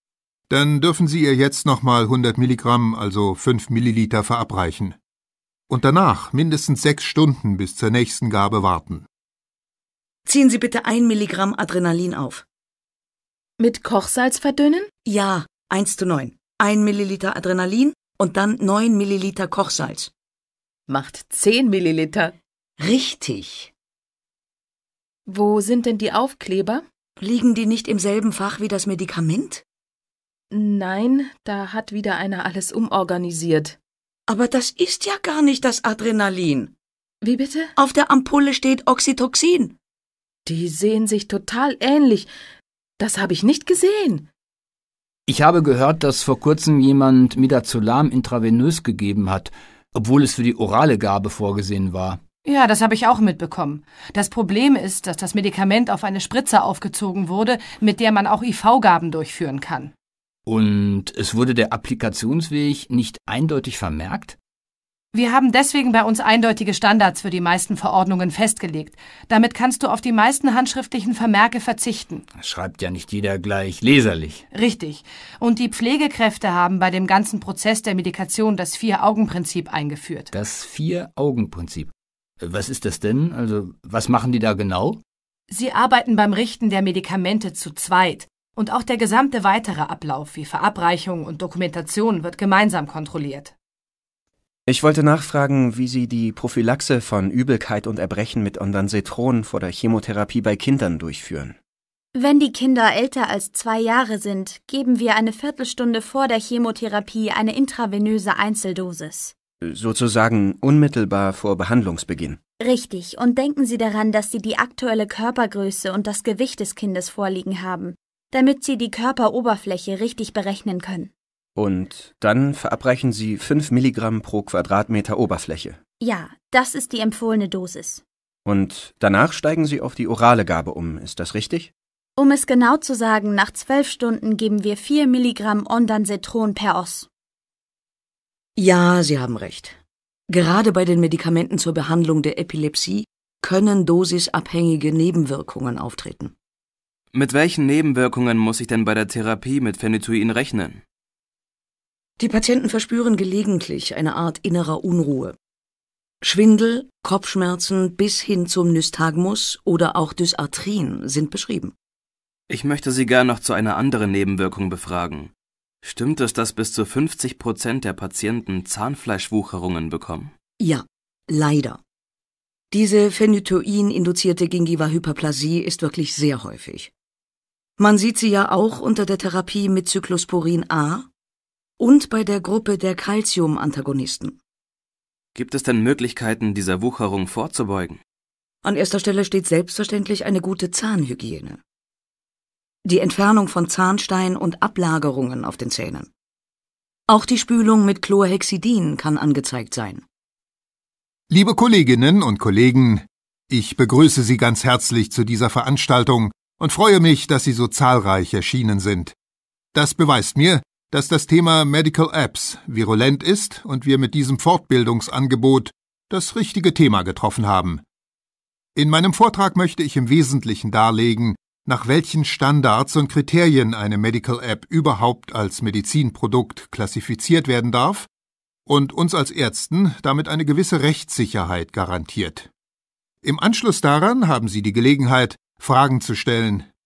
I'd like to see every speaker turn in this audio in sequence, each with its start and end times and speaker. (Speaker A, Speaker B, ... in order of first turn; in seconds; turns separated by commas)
Speaker A: 0.5-5.0, Speaker A: 5.7-9.1, Speaker B: 10.3-12.4, Speaker C: 13.6-14.9, Speaker B: 15.1-20.1, Speaker C: 20.9-22.4, Speaker B: 22.8-23.7, Speaker C: 25.3-26.9, Speaker B: 27.2-29.6, Speaker C: 30.5-33.8, Speaker B: 34.3-36.7, Speaker C: 37.2-37.7, Speaker B: 37.8-39.8, Speaker C: 40.5-42.3, Speaker C: 43.0-44.3, Speaker D: 45.3-52.2, Speaker E: 52.5-59.9, Speaker D: 60.5-64.4, Speaker E: 65.1-72.2, Speaker D: 72.3-74.5, Speaker E: 74.5-80.3, Speaker D: 80.3-85.0, Speaker E: 85.5-93.5, Speaker F: 94.7-101.6, Speaker G: 102.2-109.3, Speaker F: 109.6-112.4, Speaker G: 112.6-121.1, Speaker F: 121.6-125.8, Speaker G: 126.0-128.0, Speaker F: 128.5-131.7, Speaker G: 132.2-137.1, Speaker B: 138.6-139.8, Speaker B: 140.3-146.3, Speaker H: 147.1-150.8, Speaker B: 152.2-155.4, Speaker B: 156.2-161.7, Speaker H: 162.5-165.3, Speaker H: 165.8-170.3, Speaker B: 170.6-171.8, Speaker B: 172.7-176.9, Speaker B: 177.8-181.1, Speaker B: 181.8-184.4, Speaker H: 185.3-188.0, Speaker B: 188.6-191.6, Speaker B: 192.8-196.1, Speaker B: 197.1-200.1, Speaker A: 201.3-209.2, Speaker A: 209.7-217.8, Speaker A: 218.8-228.1, Speaker A: 228.7-232.5, Speaker A: 233.2-236.7